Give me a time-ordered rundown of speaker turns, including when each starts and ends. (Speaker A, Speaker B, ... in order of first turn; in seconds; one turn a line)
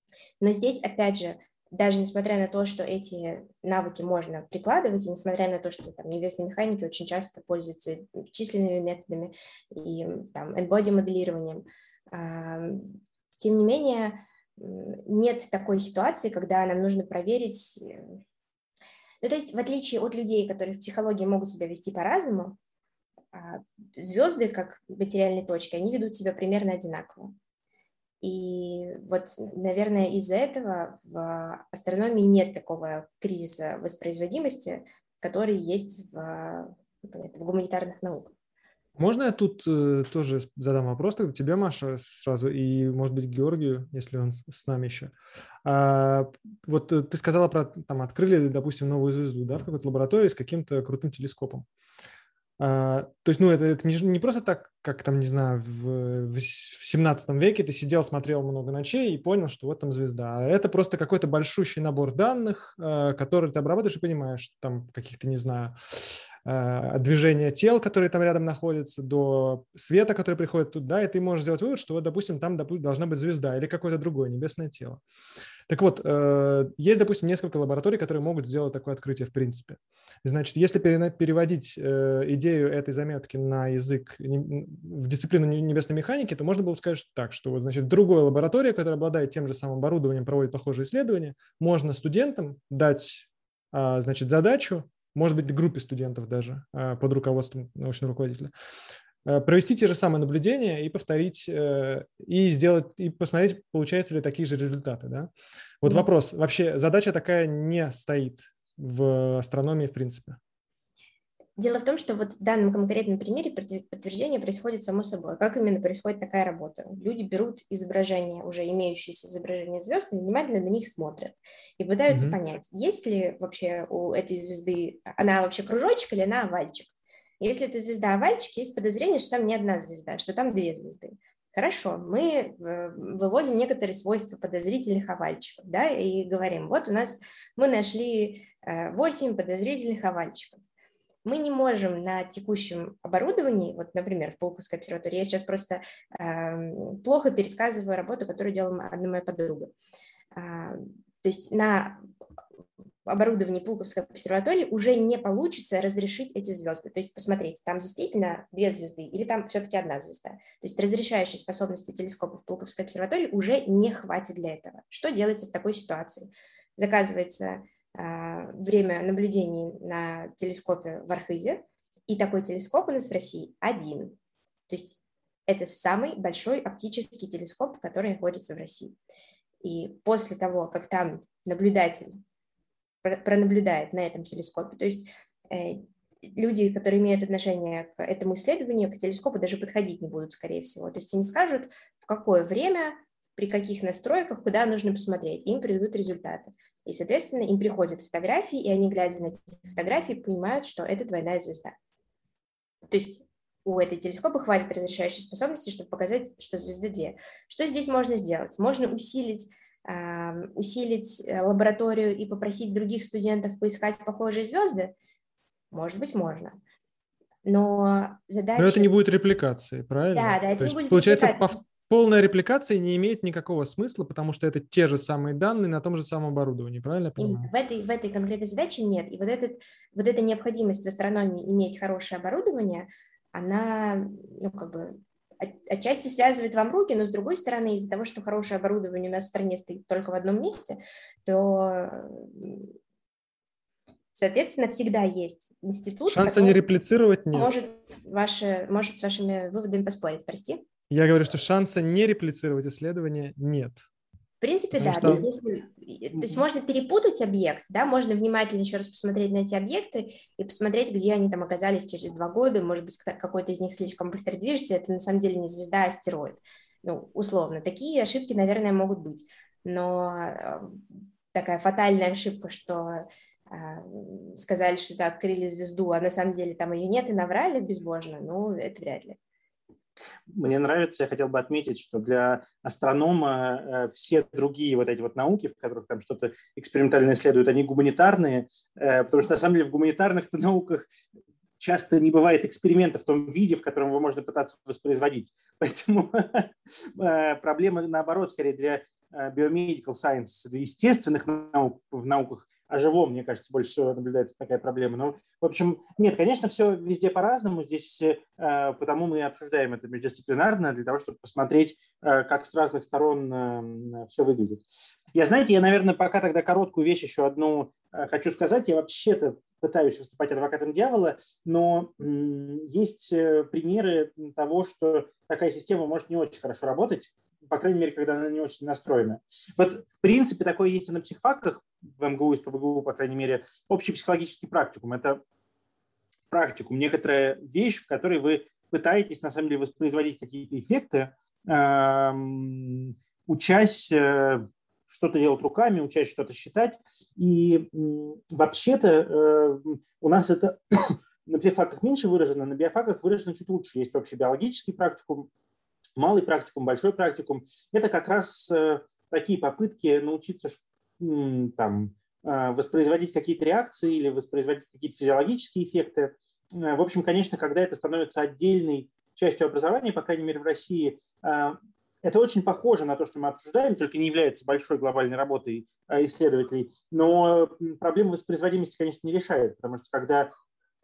Speaker A: 0.4-18.2
Speaker A: 19.2-22.6
Speaker A: 23.3-27.3
Speaker A: 28.2-38.3
Speaker B: 39.0-45.1
Speaker B: 45.6-51.6
Speaker B: 52.6-75.0
Speaker B: 75.7-98.5
Speaker B: 99.2-105.3
Speaker B: 105.8-110.4
Speaker A: 111.6-140.6
Speaker B: 122.1-122.3
Speaker A: 141.2-149.7
Speaker A: 150.3-152.0
Speaker A: 153.1-174.1
Speaker A: 174.7-178.9
Speaker A: 179.6-182.2
Speaker A: 183.0-201.7
Speaker A: 202.9-214.9
Speaker A: 215.7-216.6
Speaker A: 217.4-218.9
Speaker B: 218.6-227.5
Speaker A: 220.1-221.6
Speaker A: 227.2-242.7
Speaker A: 244.1-246.6
Speaker B: 246.1-247.5
Speaker A: 247.3-250.6
Speaker B: 250.9-253.8
Speaker A: 254.4-270.8
Speaker B: 254.8-255.3
Speaker A: 271.3-279.2
Speaker C: 280.3-290.9
Speaker C: 291.6-335.2
Speaker C: 336.3-355.3
Speaker C: 356.0-380.3